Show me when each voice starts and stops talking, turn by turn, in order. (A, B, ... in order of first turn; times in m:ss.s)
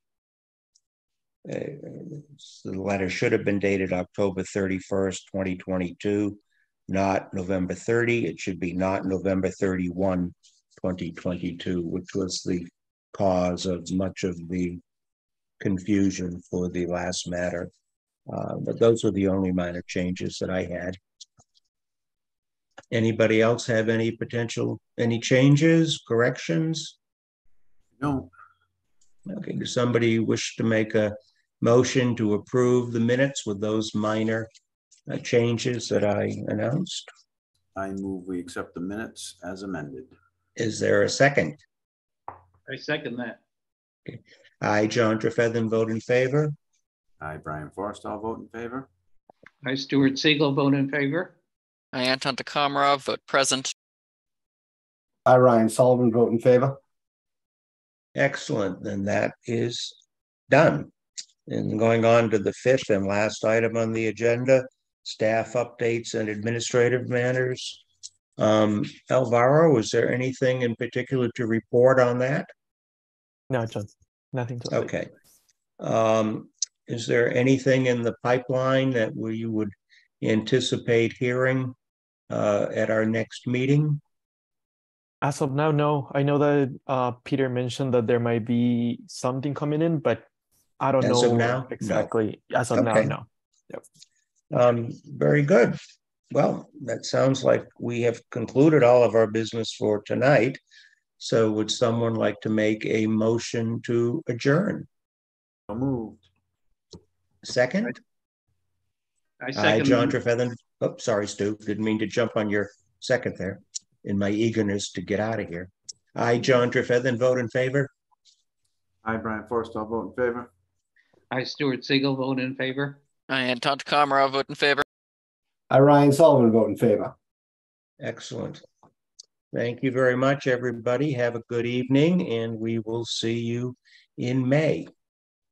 0:01.4-0:14.8 A
0:15.6-0:17.7 A
0:18.3-0:21.0 A
0:22.9-0:27.0 A
0:28.0-0:28.3 B
0:29.3-0:34.5 A
0:35.1-0:37.1 A
0:37.8-0:40.1 B
0:40.6-0:41.6 A
0:42.7-0:43.4 C
0:44.1-0:46.6 A
0:47.2-0:48.9 B
0:49.6-0:51.4 C
0:51.9-0:53.7 D
0:55.3-0:56.8 E
0:58.2-1:00.0 A
1:00.5-1:00.9 A
1:01.5-1:07.8 A
1:08.4-1:12.5 A
1:13.5-1:14.9 F
1:14.7-1:15.1 A
1:15.8-1:21.8 A
1:22.3-1:24.0 A
1:25.2-1:30.3 F
1:30.8-1:33.8 F
1:31.0-1:32.1 A
1:32.7-1:33.2 A
1:34.5-1:35.8 A
1:36.3-1:40.6 A
1:41.2-1:44.9 A
1:45.7-1:46.3 B
1:47.4-1:48.0 A
1:49.4-1:50.2 C
1:49.6-1:57.9 A
1:59.0-2:00.5 B
2:01.3-2:03.0 C
2:03.3-2:04.8 D
2:05.7-2:07.1 E
2:08.0-2:08.6 A
2:09.5-2:14.9 A